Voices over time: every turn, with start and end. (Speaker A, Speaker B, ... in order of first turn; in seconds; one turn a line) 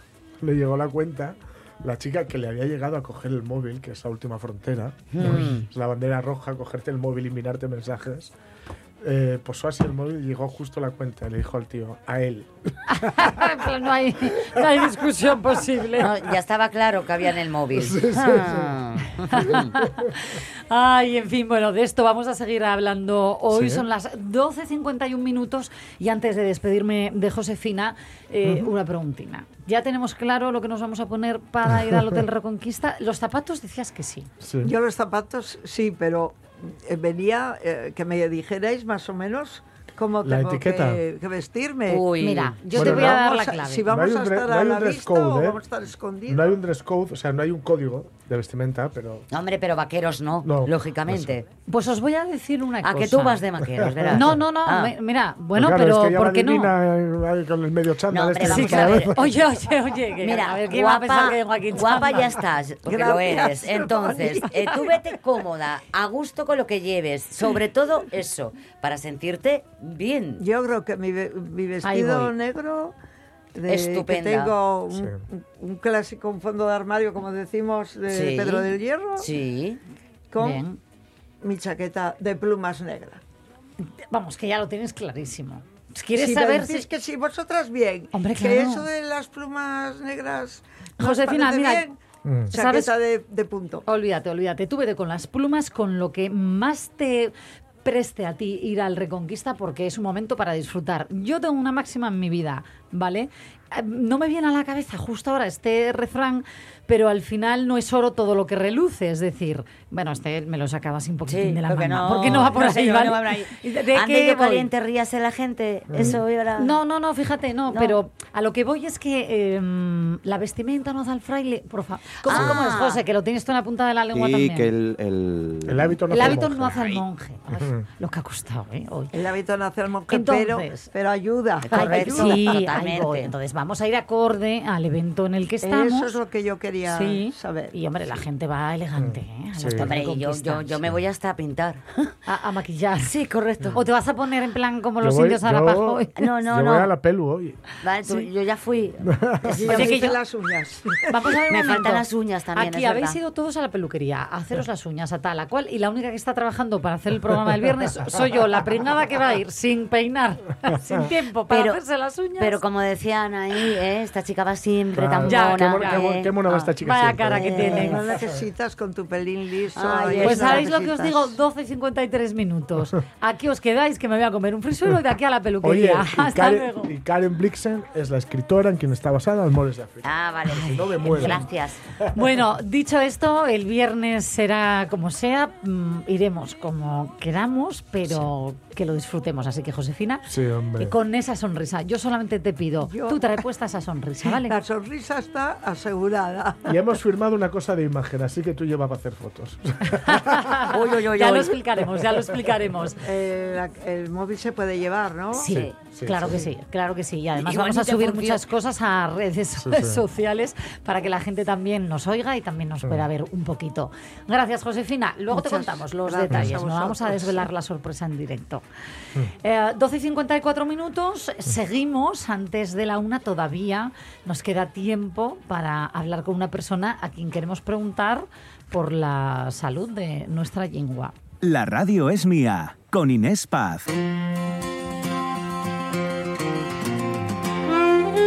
Speaker A: 0.4-8.3
Speaker B: 5.1-5.7
Speaker A: 9.0-13.5
Speaker C: 12.9-16.1
Speaker A: 14.2-14.9
Speaker B: 16.0-19.8
Speaker A: 17.7-18.8
Speaker A: 19.3-20.1
Speaker C: 19.3-34.3
Speaker A: 23.5-23.8
Speaker A: 28.4-28.7
Speaker A: 31.7-32.2
Speaker A: 34.4-34.7
Speaker D: 34.6-42.0
Speaker A: 40.2-41.0
Speaker B: 41.9-42.6
Speaker C: 42.2-43.9
Speaker D: 42.7-46.5
Speaker A: 42.7-43.2
Speaker A: 43.9-45.6
Speaker A: 46.3-49.3
Speaker B: 49.3-51.4
Speaker A: 50.4-51.4
Speaker C: 51.7-53.4
Speaker B: 52.8-54.9
Speaker A: 53.6-54.4
Speaker C: 54.1-56.7
Speaker A: 55.5-59.3
Speaker B: 58.1-59.1
Speaker C: 58.4-62.2
Speaker B: 60.2-70.4
Speaker D: 62.9-65.0
Speaker D: 70.4-72.9
Speaker C: 71.8-72.3
Speaker D: 73.5-79.3
Speaker B: 73.7-74.5
Speaker A: 74.9-75.2
Speaker B: 78.1-79.8
Speaker D: 80.3-80.6
Speaker C: 80.4-80.8
Speaker D: 81.4-83.2
Speaker C: 83.8-86.9
Speaker D: 86.1-92.0
Speaker C: 88.1-88.8
Speaker C: 91.0-91.8
Speaker A: 92.2-92.5
Speaker D: 92.5-93.8
Speaker C: 92.5-92.9
Speaker C: 93.8-97.3
Speaker C: 97.8-114.7
Speaker B: 111.3-116.8
Speaker A: 115.9-116.2
Speaker C: 116.0-124.7
Speaker B: 117.7-118.0
Speaker B: 122.2-123.0
Speaker A: 122.3-122.6
Speaker E: 124.1-126.4
Speaker A: 125.7-126.7
Speaker C: 126.1-129.1
Speaker A: 127.5-127.8
Speaker D: 129.1-132.7
Speaker C: 130.1-130.9
Speaker B: 131.6-133.3
Speaker C: 131.7-136.2
Speaker D: 135.6-137.8
Speaker C: 136.9-140.7
Speaker A: 139.0-139.9
Speaker B: 139.8-142.1
Speaker C: 142.2-143.1
Speaker B: 143.0-143.8
Speaker C: 143.7-146.1
Speaker A: 145.0-147.6
Speaker B: 146.2-146.9
Speaker B: 147.8-150.0
Speaker A: 149.0-149.6
Speaker D: 149.6-151.1
Speaker C: 149.7-150.2
Speaker C: 151.1-152.0
Speaker B: 151.5-153.2
Speaker C: 152.5-162.6
Speaker B: 161.5-161.8
Speaker B: 162.4-166.7
Speaker A: 164.9-168.2
Speaker C: 165.2-166.1
Speaker C: 166.8-168.0
Speaker B: 167.3-167.9
Speaker D: 167.7-171.3
Speaker B: 169.7-170.7
Speaker C: 170.2-176.9
Speaker A: 175.6-181.4
Speaker B: 180.0-181.8
Speaker C: 181.1-181.4
Speaker C: 182.1-190.3
Speaker A: 190.3-190.9
Speaker C: 190.8-194.6
Speaker D: 192.8-193.4
Speaker D: 194.3-196.8
Speaker A: 196.7-200.6
Speaker C: 200.0-203.0
Speaker B: 200.7-201.6
Speaker A: 202.0-202.9
Speaker D: 203.0-205.5
Speaker C: 205.3-218.6
Speaker A: 205.5-206.4
Speaker B: 207.4-208.4
Speaker A: 209.6-210.0
Speaker A: 212.8-213.1
Speaker D: 215.3-217.5
Speaker A: 216.3-216.6
Speaker C: 219.4-231.1
Speaker F: 231.4-233.9